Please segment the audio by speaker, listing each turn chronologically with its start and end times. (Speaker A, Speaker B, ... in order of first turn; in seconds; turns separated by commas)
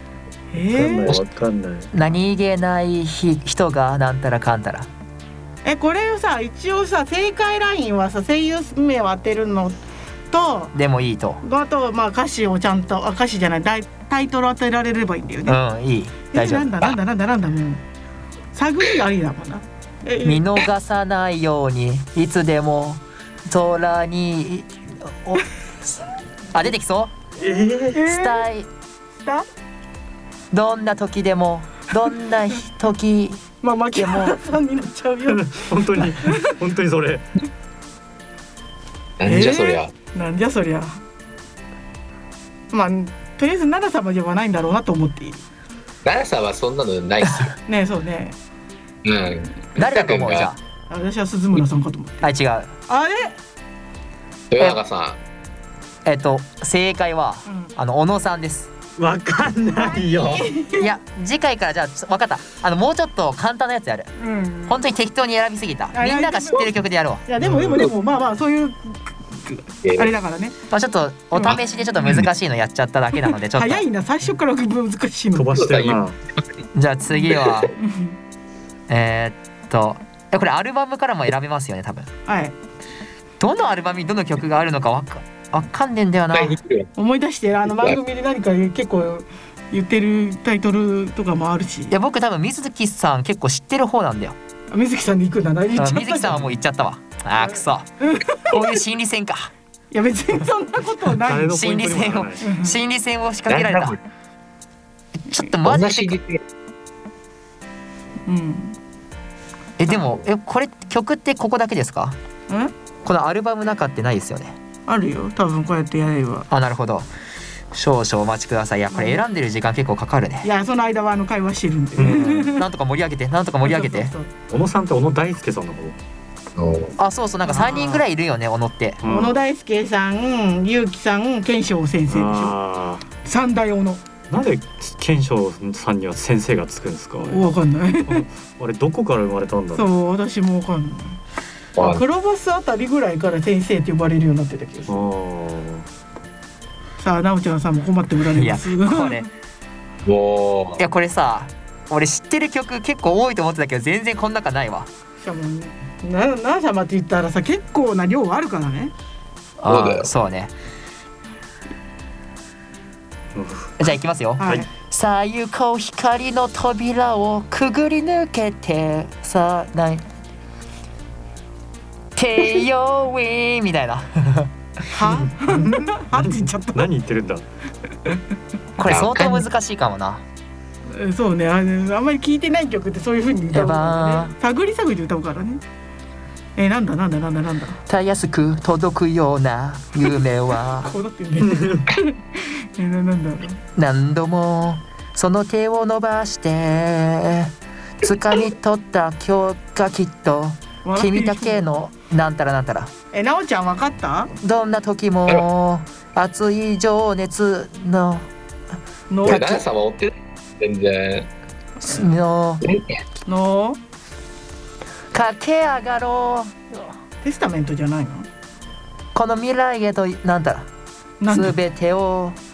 Speaker A: 0.5-1.1, Speaker B: 0.7-1.9, Speaker C: 1.9-4.9, Speaker A: 5.6-9.8, Speaker A: 10.3-10.7, Speaker C: 10.7-11.4, Speaker A: 11.4-15.6, Speaker C: 15.4-16.7, Speaker A: 16.3-17.8, Speaker A: 18.5-20.4, Speaker C: 20.2-27.1, Speaker B: 27.4-28.0, Speaker A: 27.9-28.4, Speaker C: 28.1-28.7, Speaker A: 29.2-29.4, Speaker C: 30.5-33.4, Speaker A: 33.6-36.4, Speaker C: 34.0-34.4, Speaker B: 35.3-37.3, Speaker D: 39.2-39.9, Speaker A: 39.2-41.0, Speaker A: 42.7-45.4, Speaker D: 46.0-47.5, Speaker A: 47.6-48.4, Speaker D: 49.0-50.5, Speaker C: 49.8-50.6, Speaker A: 50.9-52.3, Speaker C: 52.2-52.7, Speaker A: 52.9-53.4, Speaker D: 54.5-55.2, Speaker C: 56.0-58.7, Speaker A: 57.5-57.7, Speaker B: 59.0-60.5, Speaker A: 59.7-60.9, Speaker C: 60.8-64.1, Speaker A: 64.2-64.8, Speaker C: 64.7-67.2, Speaker A: 65.9-66.7, Speaker A: 67.2-70.5, Speaker B: 67.4-67.9, Speaker D: 69.8-70.1, Speaker C: 70.7-73.8, Speaker A: 71.3-71.6, Speaker D: 71.5-72.2, Speaker A: 73.4-75.5, Speaker B: 75.3-76.2, Speaker D: 75.5-76.6, Speaker C: 76.7-77.7, Speaker D: 77.1-77.6, Speaker A: 77.8-78.2, Speaker C: 78.9-82.1, Speaker A: 82.2-82.5, Speaker C: 83.4-86.5, Speaker D: 86.3-86.9, Speaker A: 87.0-92.0, Speaker C: 91.9-94.3, Speaker A: 94.7-96.4, Speaker C: 95.8-97.9, Speaker A: 98.0-98.8, Speaker C: 98.5-99.5, Speaker A: 99.9-101.5, Speaker B: 101.2-102.4, Speaker C: 101.5-104.0, Speaker A: 102.4-102.8, Speaker D: 103.5-104.0, Speaker C: 105.3-106.2, Speaker D: 105.6-106.4, Speaker A: 108.2-108.8, Speaker C: 109.8-112.2, Speaker C: 113.0-114.5, Speaker A: 114.9-116.5, Speaker C: 116.5-117.1, Speaker C: 117.7-120.5, Speaker A: 118.9-119.2, Speaker A: 120.4-122.6, Speaker B: 122.0-122.4, Speaker C: 122.0-124.1, Speaker A: 123.6-124.3, Speaker B: 124.5-125.9, Speaker D: 126.5-127.0, Speaker C: 127.0-129.0, Speaker A: 127.5-128.0, Speaker B: 129.0-129.4, Speaker A: 129.1-132.6, Speaker B: 132.1-133.0, Speaker A: 133.2-134.0, Speaker B: 134.3-137.5, Speaker A: 137.2-138.2, Speaker B: 138.1-139.9, Speaker A: 139.7-141.2, Speaker D: 141.8-142.0, Speaker A: 141.8-145.0, Speaker B: 144.9-145.9, Speaker A: 147.0-149.3, Speaker C: 148.3-149.3, Speaker D: 150.0-150.8, Speaker C: 150.8-154.9, Speaker A: 155.2-158.9, Speaker C: 159.6-160.5, Speaker D: 159.7-160.1, Speaker B: 163.3-163.8, Speaker C: 163.8-170.0, Speaker A: 164.4-164.7, Speaker C: 172.2-174.5, Speaker A: 174.9-176.9, Speaker B: 175.3-177.4, Speaker C: 178.8-180.2, Speaker D: 178.8-179.4, Speaker A: 180.9-185.6, Speaker C: 183.5-184.3, Speaker A: 186.6-187.8, Speaker C: 187.9-190.9, Speaker A: 190.8-193.6, Speaker B: 191.4-191.9, Speaker C: 193.8-202.9, Speaker A: 200.8-201.7, Speaker A: 203.1-204.3, Speaker C: 204.4-208.2, Speaker A: 209.1-209.6, Speaker D: 209.2-211.3, Speaker C: 209.2-209.6, Speaker C: 211.8-212.6, Speaker D: 212.6-213.0, Speaker A: 213.2-213.8, Speaker C: 215.1-216.9, Speaker A: 217.2-218.3, Speaker C: 219.1-220.7, Speaker A: 221.2-221.6, Speaker C: 221.3-222.4